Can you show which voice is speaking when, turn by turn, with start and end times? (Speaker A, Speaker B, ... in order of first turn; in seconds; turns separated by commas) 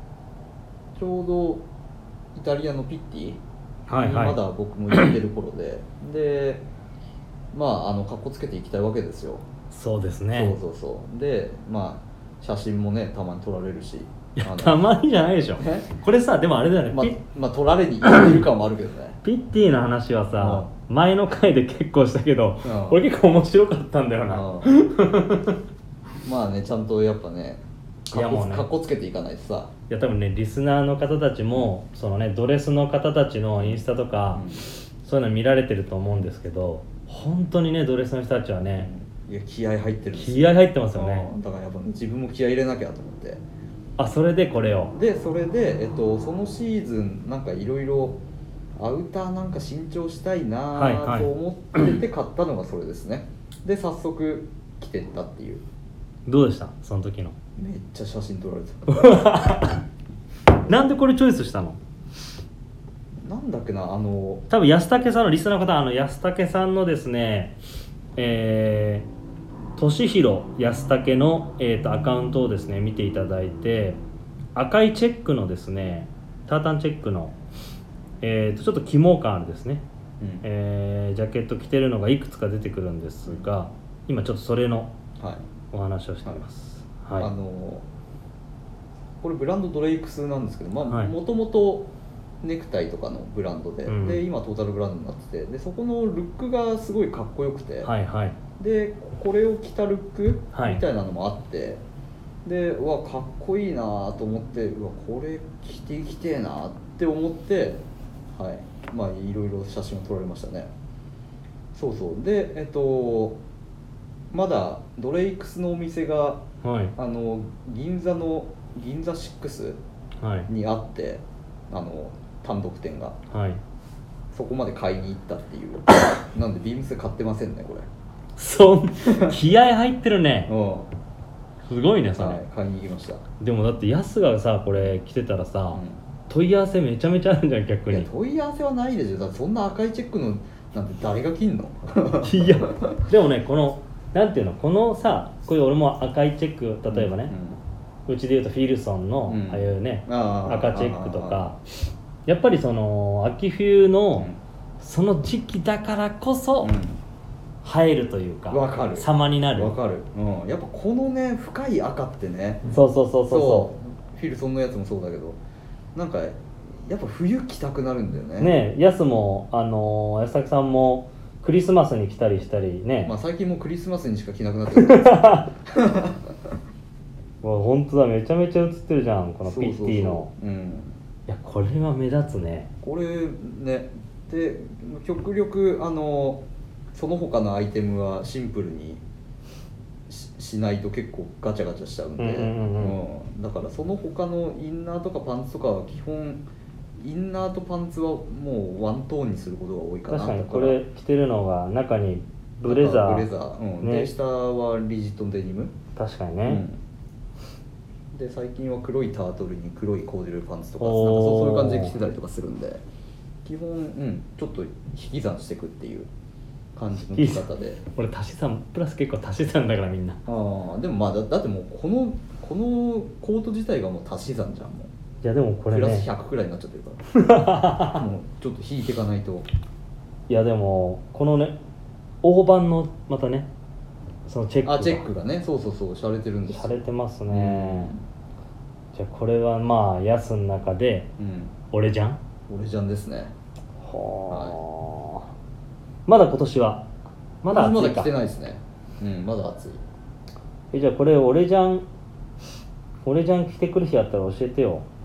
Speaker A: 0.9-1.6, Speaker A: 2.4-3.4, Speaker B: 3.9-4.4, Speaker A: 3.9-6.7, Speaker A: 7.5-9.4, Speaker B: 9.7-10.6, Speaker A: 10.3-14.8, Speaker B: 14.4-17.2, Speaker A: 15.6-15.9, Speaker A: 16.9-19.2, Speaker B: 18.0-18.4, Speaker B: 19.2-25.6, Speaker A: 20.4-20.7, Speaker A: 22.6-23.0, Speaker A: 24.3-24.7, Speaker A: 26.2-29.7, Speaker B: 28.1-28.7, Speaker B: 29.9-38.9, Speaker A: 33.6-34.6, Speaker A: 38.8-43.4, Speaker B: 40.2-41.3, Speaker B: 44.0-45.0, Speaker A: 44.9-48.2, Speaker A: 48.8-55.6, Speaker B: 50.7-51.9, Speaker B: 56.3-57.4, Speaker A: 57.6-59.2, Speaker B: 58.9-59.8, Speaker B: 60.7-61.8, Speaker A: 63.2-64.5, Speaker B: 64.5-67.5, Speaker B: 68.2-69.1, Speaker B: 69.8-74.0, Speaker B: 74.5-77.4, Speaker B: 78.2-79.8, Speaker A: 80.2-80.5, Speaker B: 80.4-84.9, Speaker B: 85.7-87.3, Speaker A: 87.2-87.8, Speaker A: 89.2-91.9, Speaker B: 90.9-91.1, Speaker A: 92.4-97.9, Speaker B: 93.9-94.2, Speaker B: 97.8-98.4, Speaker A: 98.6-101.8, Speaker B: 100.5-100.8, Speaker A: 102.5-107.8, Speaker A: 108.3-110.7, Speaker A: 111.7-113.4, Speaker A: 114.3-116.4, Speaker B: 116.6-117.0, Speaker A: 117.0-119.8, Speaker B: 120.2-120.5, Speaker A: 120.5-123.2, Speaker B: 123.3-123.6, Speaker A: 124.3-127.9, Speaker B: 128.4-130.5, Speaker A: 129.1-129.4, Speaker A: 130.5-130.9, Speaker B: 131.7-132.4, Speaker A: 132.2-133.2, Speaker B: 133.4-138.1, Speaker A: 135.7-136.0, Speaker A: 137.9-143.1, Speaker B: 142.2-147.3, Speaker A: 146.9-147.6, Speaker B: 148.1-151.6, Speaker A: 149.3-151.6, Speaker B: 152.3-156.8, Speaker A: 156.6-157.0, Speaker B: 157.6-159.8, Speaker A: 158.5-162.7, Speaker B: 162.7-163.7, Speaker A: 163.3-165.4, Speaker A: 165.9-168.6, Speaker B: 168.4-173.2, Speaker A: 173.1-176.5, Speaker B: 174.8-175.5, Speaker B: 177.4-180.3, Speaker A: 179.4-181.0, Speaker B: 181.3-182.7, Speaker A: 182.8-186.4, Speaker A: 186.9-189.0, Speaker A: 190.1-196.4, Speaker B: 192.2-193.0, Speaker A: 197.0-200.8, Speaker B: 200.1-203.3, Speaker A: 202.7-205.8, Speaker B: 203.8-204.1, Speaker B: 206.0-206.7, Speaker A: 206.5-206.8, Speaker A: 208.1-212.8, Speaker B: 210.8-211.9, Speaker A: 213.4-216.1, Speaker A: 216.8-217.8, Speaker B: 217.0-220.2, Speaker A: 220.3-224.9, Speaker B: 225.2-226.1, Speaker A: 225.7-227.0, Speaker B: 227.1-228.0, Speaker A: 227.8-229.5, Speaker B: 230.3-231.6, Speaker B: 232.2-233.5, Speaker B: 234.3-235.1, Speaker A: 234.7-238.0, Speaker B: 236.5-237.9, Speaker B: 238.9-241.1, Speaker A: 241.2-241.5, Speaker B: 241.7-242.2, Speaker A: 242.5-243.3, Speaker B: 243.8-245.3, Speaker A: 244.3-244.6, Speaker B: 246.1-246.9, Speaker B: 247.4-248.1, Speaker A: 247.5-249.8, Speaker B: 250.7-251.9, Speaker B: 253.1-254.9